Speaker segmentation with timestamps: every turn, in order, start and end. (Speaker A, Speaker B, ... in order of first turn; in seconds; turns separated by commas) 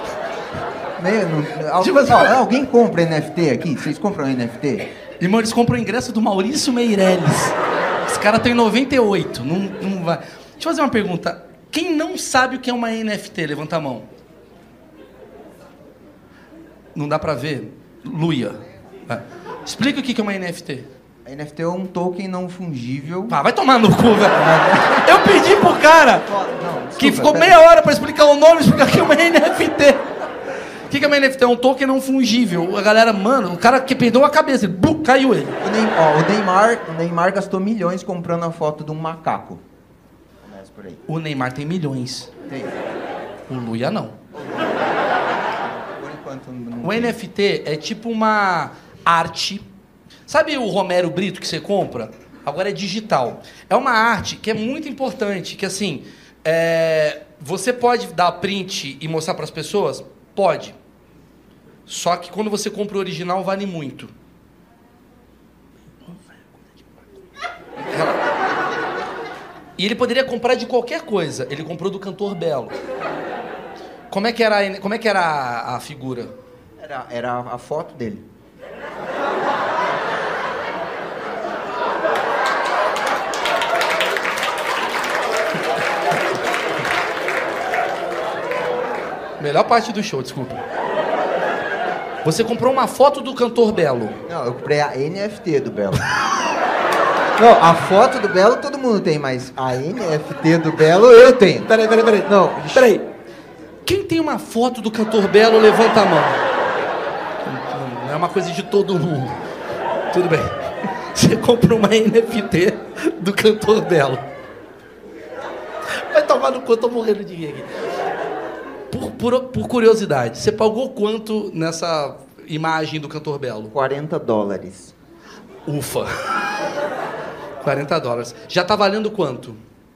Speaker A: 1.0-4.9, Speaker B: 1.8-2.3, Speaker B: 5.2-14.1, Speaker B: 16.9-20.9, Speaker A: 21.2-23.4, Speaker B: 23.3-26.3, Speaker A: 24.5-25.0, Speaker A: 26.3-27.6, Speaker B: 27.0-30.1, Speaker B: 30.9-35.6, Speaker A: 35.6-39.6, Speaker A: 40.4-41.0, Speaker B: 41.1-42.3, Speaker A: 42.5-42.8, Speaker B: 43.5-44.2, Speaker A: 44.4-45.0, Speaker A: 45.6-47.2, Speaker B: 46.8-49.7, Speaker B: 50.3-60.8, Speaker B: 61.9-64.1, Speaker B: 67.8-68.2, Speaker B: 69.8-72.8, Speaker B: 74.1-76.3, Speaker A: 76.8-78.3, Speaker B: 89.4-90.6, Speaker B: 92.2-94.2, Speaker A: 94.3-96.0, Speaker A: 97.4-102.9, Speaker B: 102.7-103.0, Speaker B: 103.8-106.4, Speaker B: 107.4-109.4, Speaker B: 110.1-114.2, Speaker B: 115.9-117.8, Speaker B: 118.9-123.7, Speaker A: 123.7-124.9, Speaker B: 125.7-126.1, Speaker B: 127.6-129.6